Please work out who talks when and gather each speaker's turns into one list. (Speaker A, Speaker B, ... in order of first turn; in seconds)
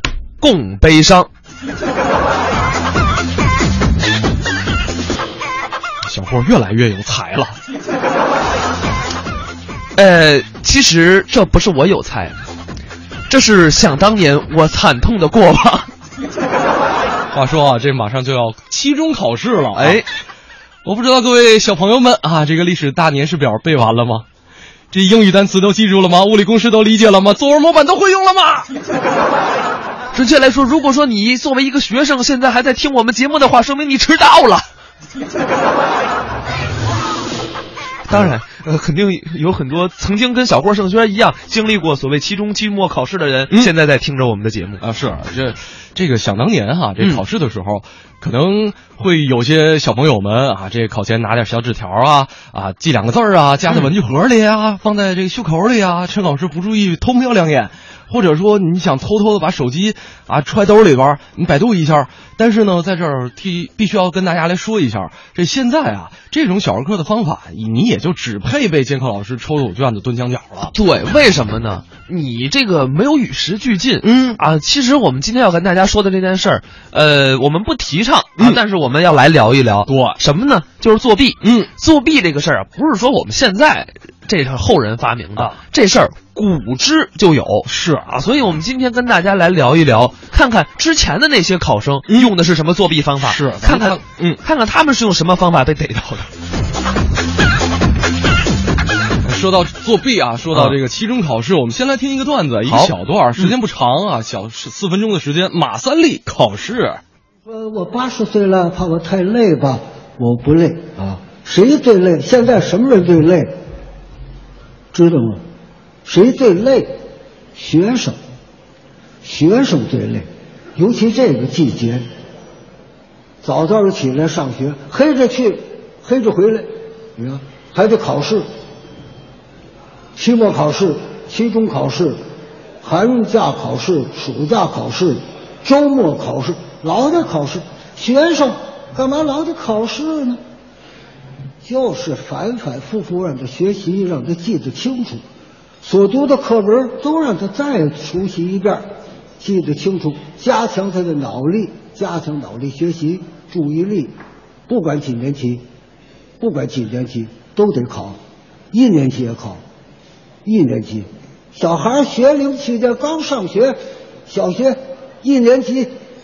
Speaker A: 0.4-1.3, 10.0-12.4, 13.3-15.9, 19.8-20.1, 30.1-34.7, 38.1-44.8, 70.7-96.3, 100.5-100.8, 102.7-103.5
Speaker B: 6.1-7.6, 17.3-20.0, 20.9-24.2, 24.9-28.7, 44.8-70.7, 74.0-74.4, 79.9-80.2, 81.4-81.7, 87.7-88.1, 93.2-94.4, 99.2-107.0
Speaker C: 107.5-113.5, 114.9-115.4, 116.0-116.9, 117.6-118.2, 119.2-122.0, 123.4-128.4, 130.2-132.2, 132.8-140.4, 141.6-145.2, 145.8-148.8, 149.4-154.1, 154.7-155.6, 156.4-158.2, 158.7-159.6, 160.4-163.8, 164.3-165.9